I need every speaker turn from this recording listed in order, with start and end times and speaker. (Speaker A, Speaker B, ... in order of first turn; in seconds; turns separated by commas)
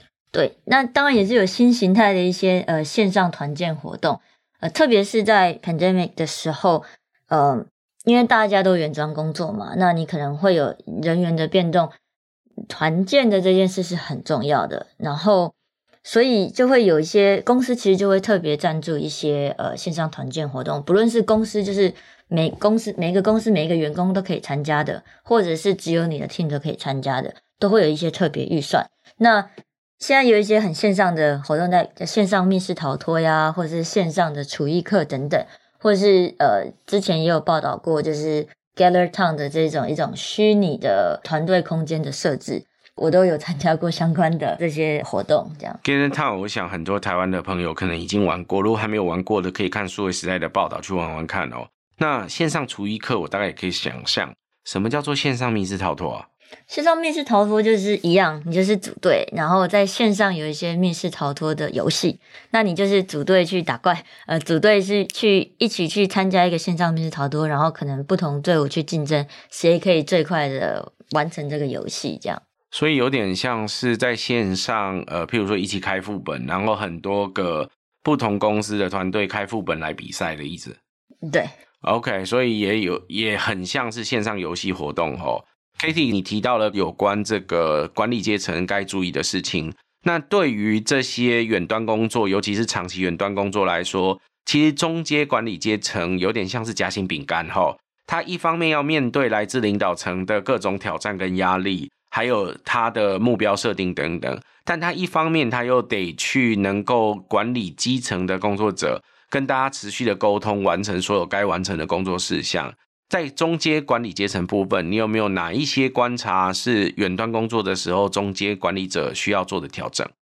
Speaker A: 0.3-11.9, Speaker A: 12.7-29.5, Speaker A: 30.0-45.8, Speaker B: 45.8-56.3, Speaker A: 56.7-72.4, Speaker B: 72.7-80.8, Speaker A: 81.3-81.5, Speaker B: 81.8-120.1